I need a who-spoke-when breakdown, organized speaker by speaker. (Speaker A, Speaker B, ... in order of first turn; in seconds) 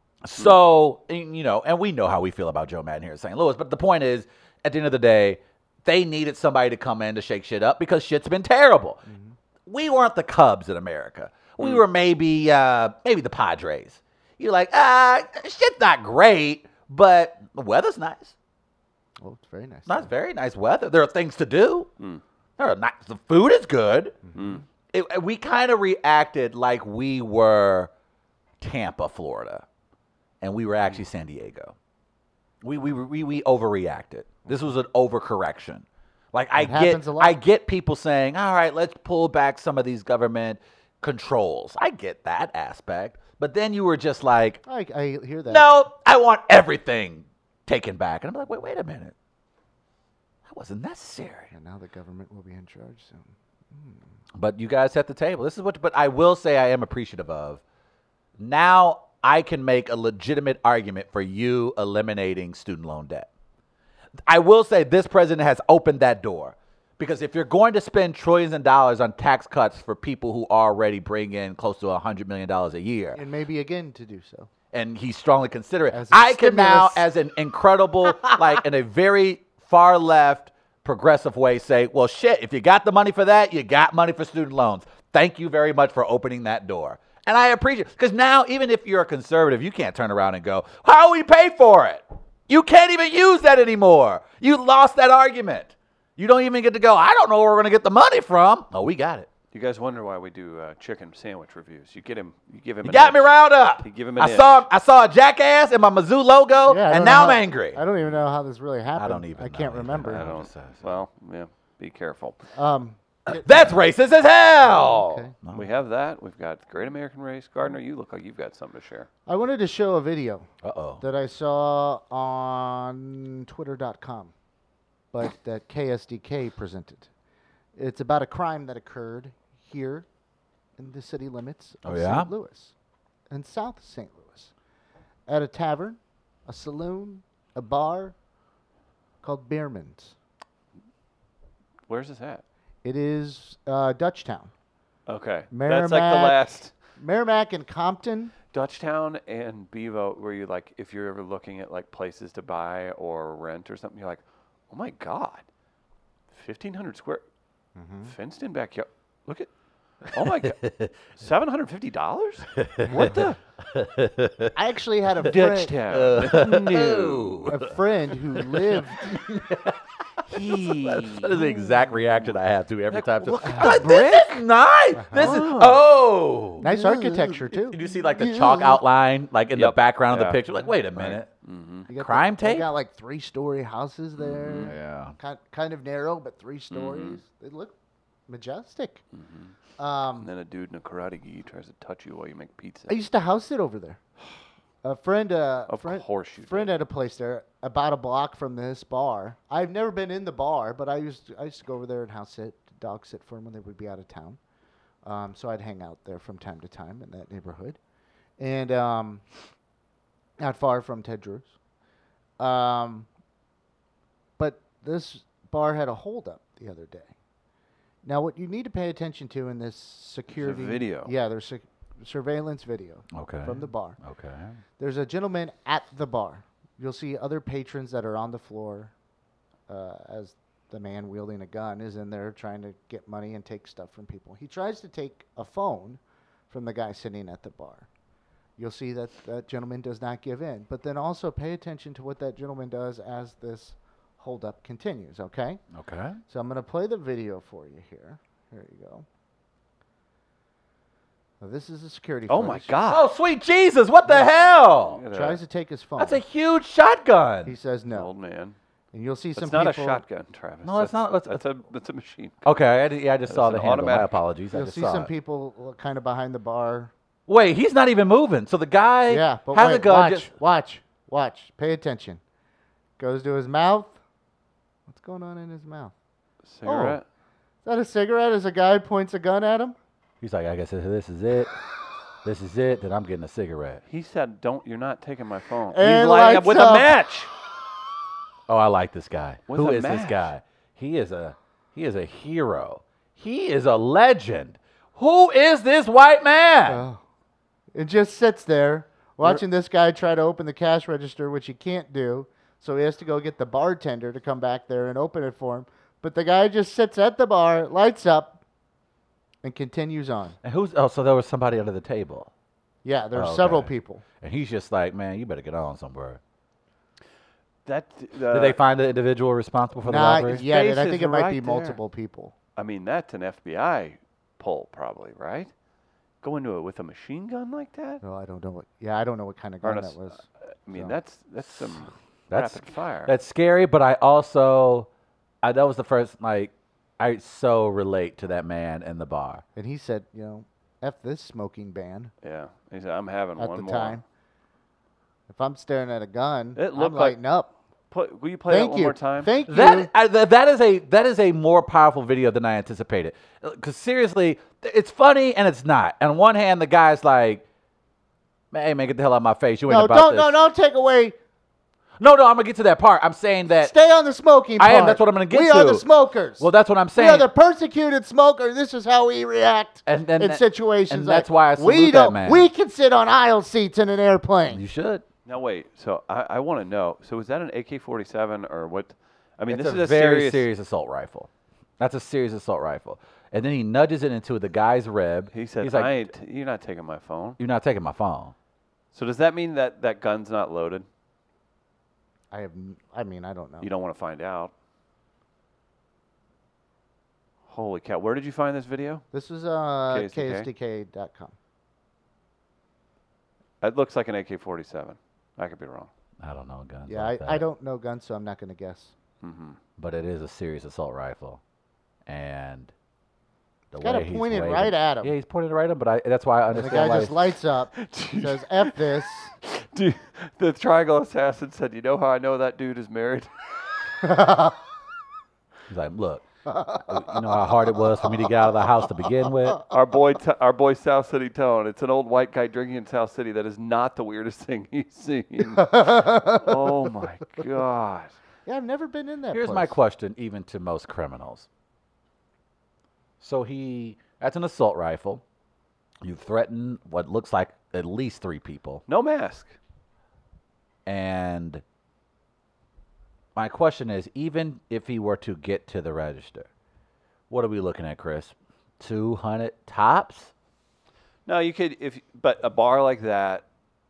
Speaker A: 0.2-9.0, 9.7-18.4, 19.9-21.9, 22.6-24.2, 24.9-27.9, 28.6-29.6, 30.4-31.8, 32.6-44.6, 45.5-49.1, 50.5-51.5, 54.4-57.6, 58.4-63.3, 64.3-73.2, 74.7-99.3, 102.8-107.8, 109.0-111.0, 113.3-115.7, 120.6-121.0, 131.8-132.3, 160.4-160.9, 162.6-164.6, 165.3-167.7, 168.4-169.8, 170.3-181.3, 181.9-182.7, 184.6-185.2, 223.1-224.6, 245.7-246.2, 252.9-255.0, 256.0-257.5, 260.6-261.4, 262.4-265.1, 267.3-270.3, 280.2-281.5, 282.2-283.8, 288.5-296.8, 310.4-312.3, 313.1-316.2, 318.3-320.4, 332.3-334.9, 335.4-339.4, 349.5-357.4, 358.5-360.4, 362.0-363.7, 364.6-365.9, 366.4-367.3, 369.9-372.5, 374.5-375.0, 379.5-386.1, 387.4-388.3, 406.2-407.4, 409.8-411.4, 412.1-412.7, 413.7-417.3, 425.7-426.2, 426.8-429.6, 439.3-441.5, 443.2-445.2, 446.0-448.8, 450.9-451.6, 453.4-456.5, 457.3-460.3
Speaker B: 9.1-9.4, 19.2-20.1, 24.3-24.6, 36.6-37.4, 44.7-45.7, 51.5-54.0, 73.2-74.5, 75.9-77.1, 106.7-110.2, 112.6-113.7, 114.7-115.3, 119.3-120.5, 121.0-124.3, 125.1-127.1, 127.8-130.1, 130.8-132.7, 133.3-134.5, 135.3-138.2, 139.2-140.2, 142.8-144.5, 145.5-146.4, 147.0-148.3, 157.8-158.1, 164.6-165.8, 167.5-169.2, 175.0-175.4, 176.6-178.8, 181.9-187.8, 188.3-189.0, 189.8-190.3, 192.9-194.0, 194.8-204.4, 205.1-207.8, 208.4-209.2, 210.4-211.5, 212.4-213.1, 214.4-217.1, 218.0-224.0, 224.8-228.9, 229.7-237.9, 238.6-245.6, 246.3-249.1, 251.4-252.7, 255.1-256.2, 257.4-258.1, 258.9-260.0, 264.5-266.9, 269.1-272.2, 273.0-274.0, 274.9-275.9, 276.6-277.0, 277.6-279.8, 285.7-286.9, 296.7-297.0, 297.7-308.4, 309.4-310.4, 312.8-314.0, 319.8-322.3, 328.0-331.0, 339.6-342.1, 343.4-344.0, 345.3-347.5, 348.5-349.9, 359.7-361.2, 363.6-374.6, 392.3-393.7, 399.1-401.4, 406.9-408.9, 413.8-415.1, 416.5-419.3, 424.0-424.6, 426.5-427.0, 435.6-436.9, 438.5-439.8
Speaker C: 24.4-24.6, 99.5-103.3, 103.8-104.7, 110.1-112.4, 115.5-119.1, 141.9-142.4, 145.1-146.7, 148.5-155.4, 156.3-157.2, 158.1-159.5, 160.0-163.4, 165.2-167.6, 170.3-172.3, 172.9-174.4, 175.1-175.8, 179.6-181.9, 184.2-184.8, 186.7-187.2, 189.2-189.5, 190.2-192.9, 195.7-196.7, 220.3-221.1, 252.3-253.0, 254.8-255.4, 257.9-258.6, 259.4-262.4, 263.3-264.2, 276.5-277.0, 283.9-287.3, 289.5-290.3, 317.7-318.6, 320.3-321.8, 322.6-325.5, 326.2-328.0, 329.6-330.0, 330.7-333.1, 342.2-344.0, 346.6-347.2, 347.9-349.4, 375.3-380.5, 385.3-387.4, 388.9-390.9, 393.6-394.5, 397.5-399.1, 399.9-400.5, 403.6-405.9, 409.2-409.6, 417.8-423.3, 429.7-438.1, 448.9-449.6, 461.3-463.4